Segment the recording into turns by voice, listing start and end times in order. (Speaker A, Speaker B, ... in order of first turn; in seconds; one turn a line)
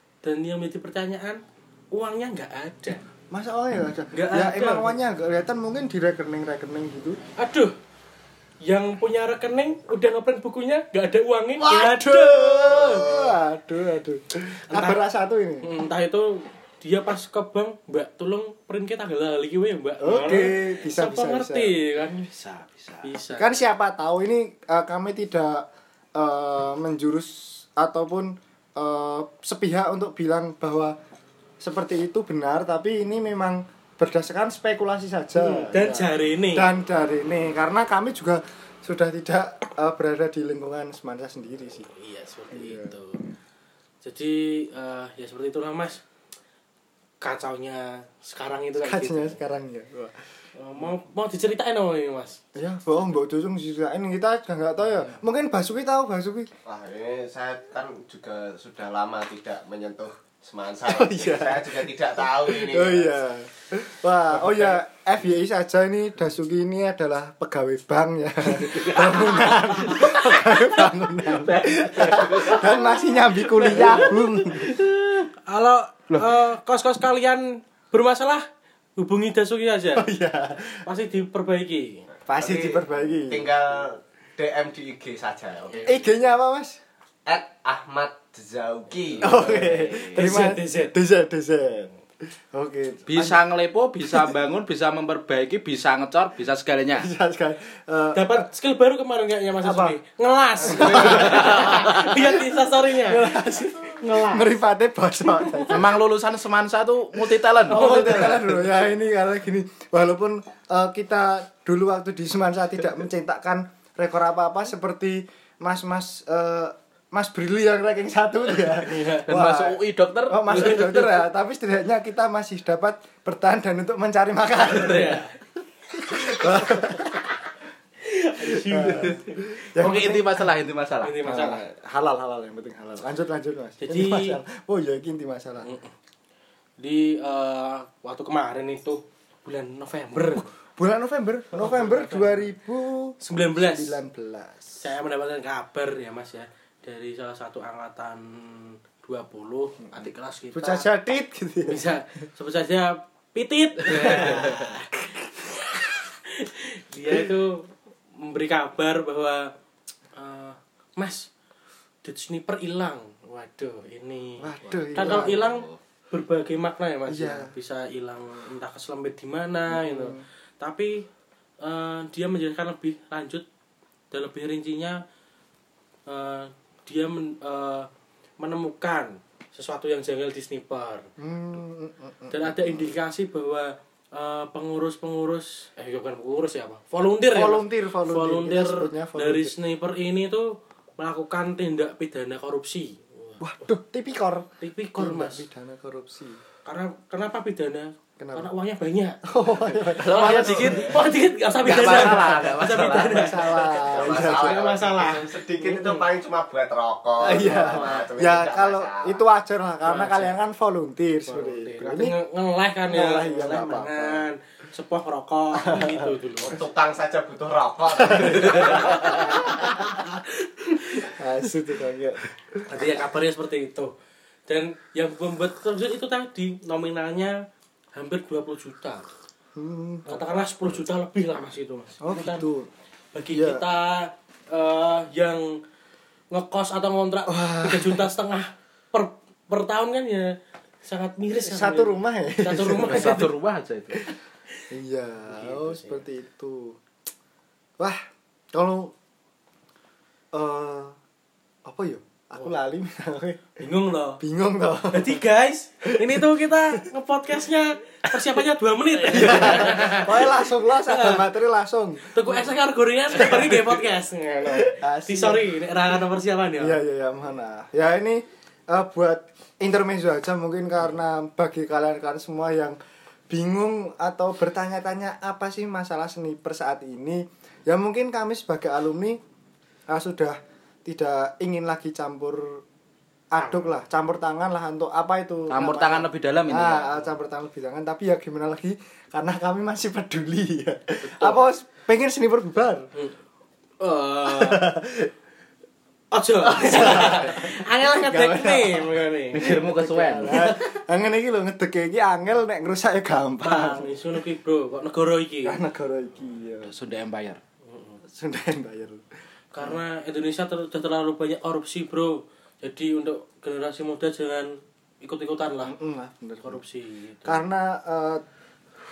Speaker A: 0.2-3.0
Speaker B: 3.3-7.2
Speaker A: 4.1-5.0
Speaker A: 7.4-7.7
Speaker A: 8.6-13.1
Speaker B: 11.6-15.7
Speaker A: 14.7-15.0
Speaker A: 15.6-22.2
Speaker B: 20.0-21.8
Speaker C: 22.0-23.1
Speaker A: 23.0-23.6
Speaker B: 23.3-31.0
Speaker B: 31.6-41.9
Speaker A: 35.4-36.7
Speaker A: 41.8-43.2
Speaker B: 42.5-43.0
Speaker A: 44.0-46.0
Speaker A: 47.2-49.4
Speaker B: 48.8-50.2
Speaker A: 50.5-52.4
Speaker B: 52.5-56.5
Speaker D: 56.6-63.2
Speaker B: 60.9-74.7
Speaker C: 68.5-72.9
Speaker A: 71.9-72.3
Speaker C: 73.5-75.2
Speaker A: 73.6-74.1
Speaker A: 75.3-78.5
Speaker A: 79.0-80.1
Speaker B: 80.0-80.8
Speaker A: 80.9-82.0
Speaker B: 82.3-83.5
Speaker D: 82.3-86.0
Speaker B: 85.8-86.8
Speaker D: 87.3-90.3
Speaker B: 89.2-93.4
Speaker A: 90.1-91.0
Speaker C: 93.1-97.1
Speaker B: 94.1-94.3
Speaker B: 97.0-98.4
Speaker A: 98.1-104.5
Speaker B: 99.6-100.0
Speaker B: 100.6-105.9
Speaker C: 101.0-102.0
Speaker A: 105.3-105.7
Speaker C: 105.7-108.3
Speaker B: 107.7-125.2
Speaker A: 107.7-108.3
Speaker A: 118.8-119.3
Speaker C: 119.2-121.1
Speaker A: 120.5-120.9
Speaker A: 124.7-125.3
Speaker C: 124.8-125.2
Speaker B: 125.9-127.2
Speaker A: 128.0-129.4
Speaker B: 128.4-130.5
Speaker C: 129.8-131.3
Speaker A: 131.0-131.6
Speaker B: 131.2-135.7
Speaker A: 133.8-134.4
Speaker A: 135.6-135.9
Speaker A: 136.8-140.5
Speaker B: 140.4-144.9
Speaker A: 141.6-142.5
Speaker A: 143.2-144.0
Speaker A: 144.8-150.9
Speaker B: 150.5-151.9
Speaker A: 151.7-159.5
Speaker B: 153.9-154.7
Speaker A: 160.2-161.3
Speaker A: 162.0-171.1
Speaker B: 164.4-165.5
Speaker C: 164.8-165.8
Speaker B: 167.1-167.5
Speaker B: 169.7-170.3
Speaker A: 171.6-173.4
Speaker A: 174.1-175.0
Speaker A: 176.1-177.9
Speaker A: 178.4-181.1
Speaker B: 181.2-182.9
Speaker A: 182.3-193.4
Speaker B: 187.3-189.6
Speaker B: 193.4-196.4
Speaker A: 194.6-195.5
Speaker A: 196.7-199.2
Speaker B: 198.2-198.5
Speaker B: 199.2-200.9
Speaker A: 199.8-206.1
Speaker C: 199.9-201.1
Speaker D: 200.7-200.9
Speaker C: 201.6-203.5
Speaker B: 201.6-204.7
Speaker D: 203.7-209.2
Speaker B: 207.2-212.2
Speaker A: 209.8-210.4
Speaker A: 211.3-216.6
Speaker B: 212.9-214.3
Speaker B: 215.6-216.1
Speaker D: 216.4-219.0
Speaker B: 218.1-219.7
Speaker A: 218.5-221.2
Speaker B: 221.1-222.9
Speaker A: 222.7-223.9
Speaker A: 224.5-227.4
Speaker A: 227.9-229.1
Speaker B: 229.6-230.3
Speaker A: 230.1-232.5
Speaker B: 232.0-232.7
Speaker A: 233.1-235.6
Speaker B: 233.3-233.6
Speaker A: 236.3-240.3
Speaker B: 237.3-238.1
Speaker A: 240.8-243.3
Speaker B: 241.4-243.2
Speaker C: 242.8-244.0
Speaker B: 244.7-246.8
Speaker A: 245.3-246.0
Speaker B: 248.5-248.9
Speaker B: 250.3-251.0
Speaker B: 251.7-253.6
Speaker A: 253.6-254.2
Speaker B: 254.2-255.2
Speaker A: 254.9-261.2
Speaker B: 259.1-262.5
Speaker A: 262.1-266.8
Speaker B: 263.1-263.9
Speaker B: 264.5-266.0
Speaker B: 266.6-272.8
Speaker B: 273.3-279.2
Speaker B: 279.9-282.6
Speaker B: 283.3-292.9
Speaker A: 283.4-283.7
Speaker C: 285.5-287.1
Speaker C: 291.1-291.4
Speaker A: 293.8-294.8
Speaker B: 294.3-295.1
Speaker A: 296.1-299.6
Speaker B: 296.4-304.1
Speaker C: 299.3-300.4
Speaker A: 303.4-305.6
Speaker B: 305.4-306.7
Speaker C: 306.6-307.4
Speaker A: 307.6-308.0
Speaker B: 308.1-309.0
Speaker A: 309.5-315.8
Speaker B: 315.6-316.6
Speaker A: 316.4-317.4
Speaker B: 317.3-318.2